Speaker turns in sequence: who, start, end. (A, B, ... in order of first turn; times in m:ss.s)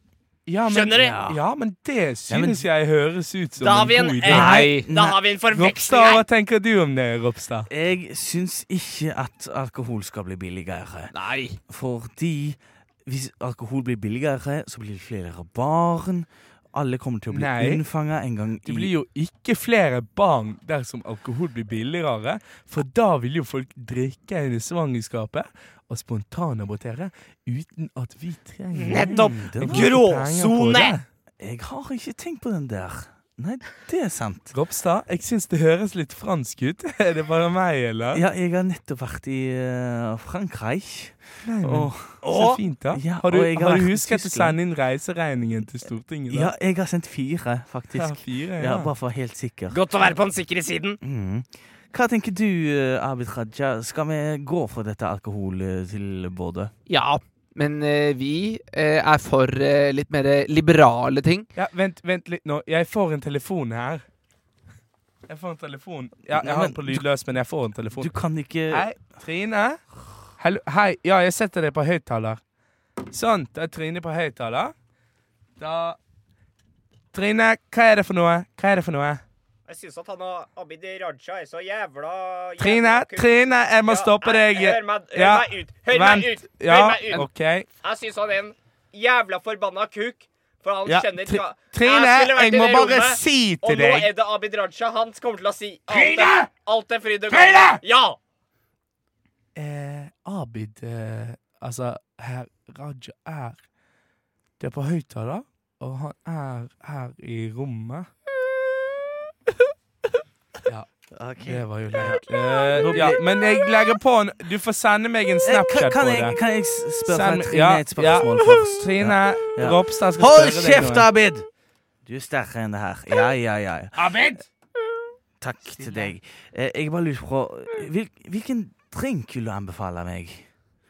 0:00.5-0:04.8 A
0:00.7-0:01.1 B
0:00.9-0:01.4 C
0:02.3-0:02.6 C
0:03.6-0:06.2 B
0:04.2-0:05.2 C
0:05.5-0:07.7 A
0:07.7-0:11.1 C
0:11.1-0:11.4 B
0:11.7-0:18.9 C
0:17.3-0:17.8 A
0:18.6-0:31.0 A
0:28.7-0:31.0 B
0:29.1-0:30.0 C
0:31.4-0:34.5 C
0:34.5-0:38.2 A
0:38.1-0:44.6 C
0:41.4-0:46.5 A
0:42.2-0:42.6 B
0:46.3-0:49.8 C
0:47.9-0:48.9 A
0:49.7-0:51.0 B
0:51.0-0:56.7 C
0:56.9-1:01.5 D
1:01.6-1:04.0 A
1:05.3-1:08.1 A
1:06.3-1:07.1 C
1:08.0-1:08.9 C
1:08.7-1:09.8 A
1:10.4-1:12.4 A
1:13.1-1:14.7 A
1:15.6-1:16.0 A
1:17.1-1:19.2 A
1:19.7-1:27.3 B
1:22.6-1:27.7 A
1:27.8-1:38.2 B
1:30.9-1:34.1 A
1:35.9-1:36.5 A
1:37.3-1:37.8 A
1:39.6-1:43.6 A
1:44.6-1:48.1 A
1:51.1-1:53.2 C
1:51.4-1:56.4 A
1:55.4-2:01.5 C
1:57.1-2:01.1 A
2:02.0-2:04.3 C
2:04.0-2:04.4 A
2:05.4-2:10.5 C